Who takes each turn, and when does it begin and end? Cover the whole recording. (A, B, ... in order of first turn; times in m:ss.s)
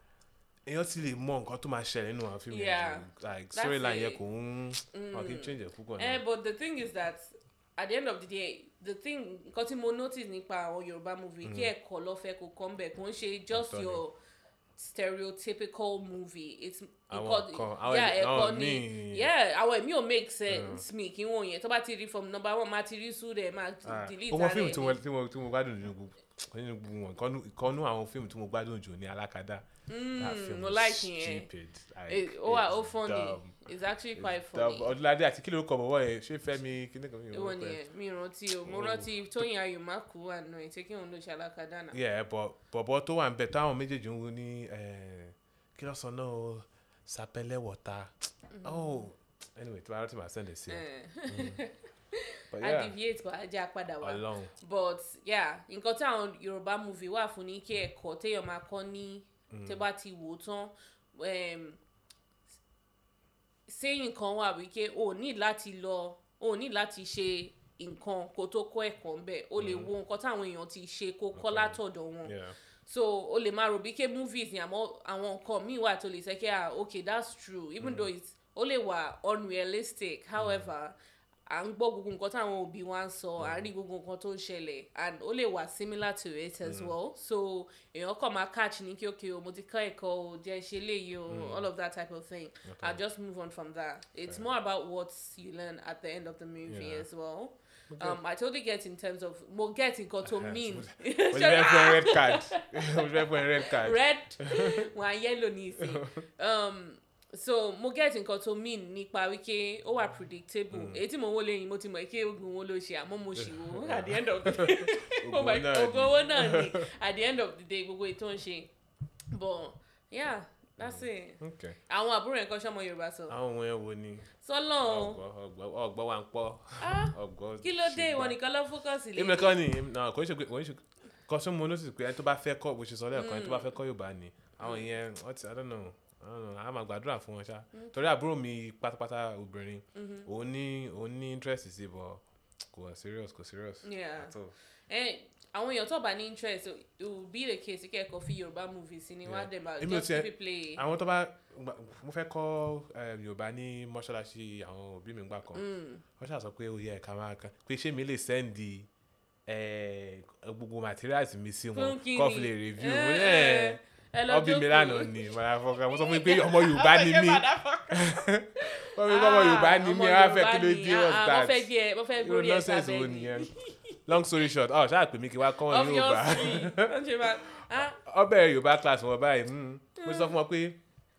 0:00.6-0:06.2 A
0:02.5-0:04.2 B
0:04.9-0:14.2 B
0:11.4-0:11.7 A
0:13.5-0:14.0 A
0:14.8-0:25.0 B
0:17.1-0:19.3 A
0:20.5-0:20.8 A
0:23.8-0:33.6 A
0:29.9-0:31.5 B
0:32.1-0:34.9 B
0:34.2-0:37.8 A
0:37.3-0:42.0 B
0:38.6-0:39.4 A
0:41.9-0:48.1 A
0:48.5-0:49.1 B
0:48.6-0:51.6 A
0:50.7-1:01.8 B
0:52.5-0:52.9 A
0:54.0-0:54.5 A
0:59.5-0:59.9 A
1:03.7-1:12.3 B
1:09.6-1:09.9 A
1:11.4-1:12.5 A
1:12.9-1:21.0 B
1:17.8-1:18.1 A
1:20.4-1:20.7 A
1:21.5-1:58.7 B
1:23.4-1:23.7 A
1:26.6-1:26.9 A
1:31.3-1:31.7 A
1:32.6-1:33.0 A
1:36.6-1:37.1 A
1:37.9-1:38.2 A
1:40.2-1:44.9 A
1:45.8-1:46.2 A
1:50.7-1:51.0 A
1:53.4-1:56.8 A
1:59.3-2:03.4 B
2:00.8-2:01.8 A
2:03.3-2:04.3 A
2:04.4-2:05.2 B
2:04.8-2:08.4 A
2:06.8-2:09.6 B
2:09.1-2:24.5 A
2:13.1-2:13.8 B
2:14.6-2:14.9 B
2:19.9-2:20.3 B
2:23.8-2:24.4 B
2:24.9-2:30.8 B
2:29.2-2:35.6 A
2:35.5-2:36.0 B
2:36.2-2:38.9 A
2:39.5-2:53.5 A
2:41.7-2:45.1 B
2:45.8-2:54.0 B
2:54.0-3:00.8 A
2:55.6-2:58.0 B
3:00.0-3:00.4 B